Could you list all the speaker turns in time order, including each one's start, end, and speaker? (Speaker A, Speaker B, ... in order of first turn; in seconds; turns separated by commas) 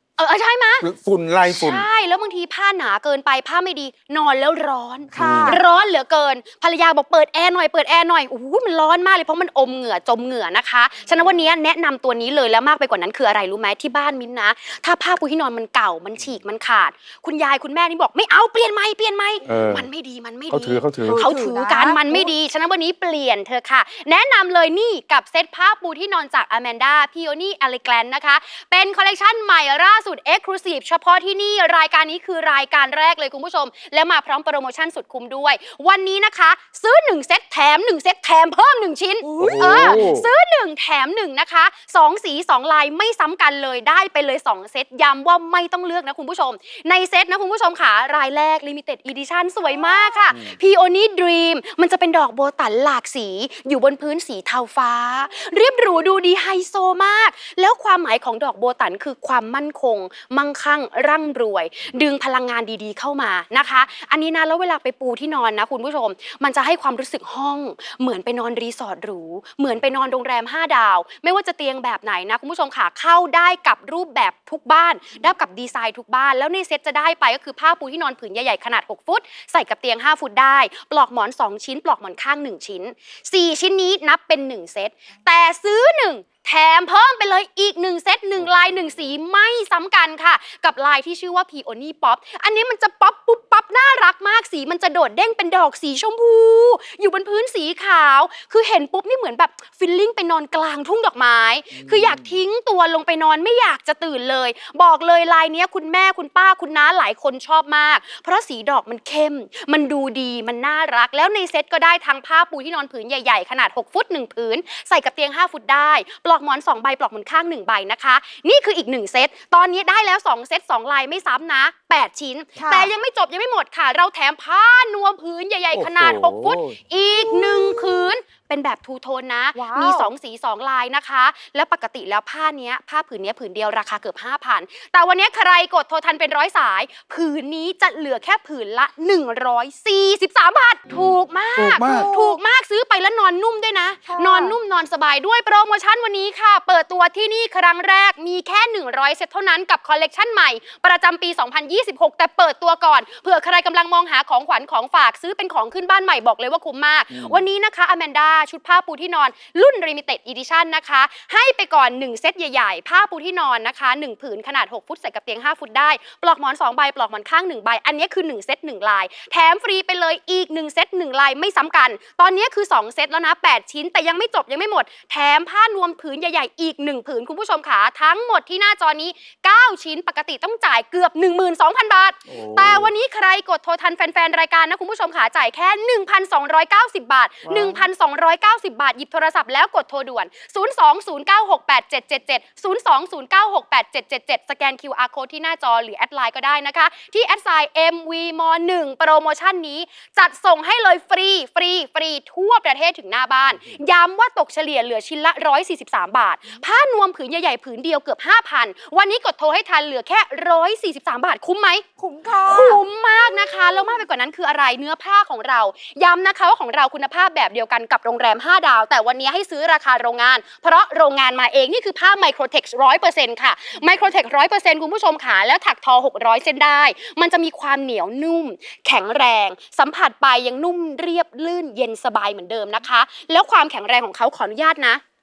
Speaker A: 0.2-0.8, Speaker B: 0.8-1.9, Speaker A: 1.5-211.8, Speaker B: 5.1-5.6, Speaker C: 5.1-5.6, Speaker B: 19.4-19.9, Speaker B: 20.5-21.2, Speaker C: 21.0-22.3, Speaker B: 39.2-40.3, Speaker B: 50.3-50.6, Speaker B: 101.7-102.4, Speaker C: 122.6-122.9, Speaker B: 125.7-126.8, Speaker C: 127.2-128.0, Speaker C: 129.5-130.1, Speaker B: 141.6-142.1, Speaker C: 141.8-142.4, Speaker C: 144.1-144.6, Speaker B: 157.1-157.4, Speaker B: 182.3-182.9, Speaker B: 187.4-187.9, Speaker C: 212.0-212.8, Speaker A: 212.5-235.0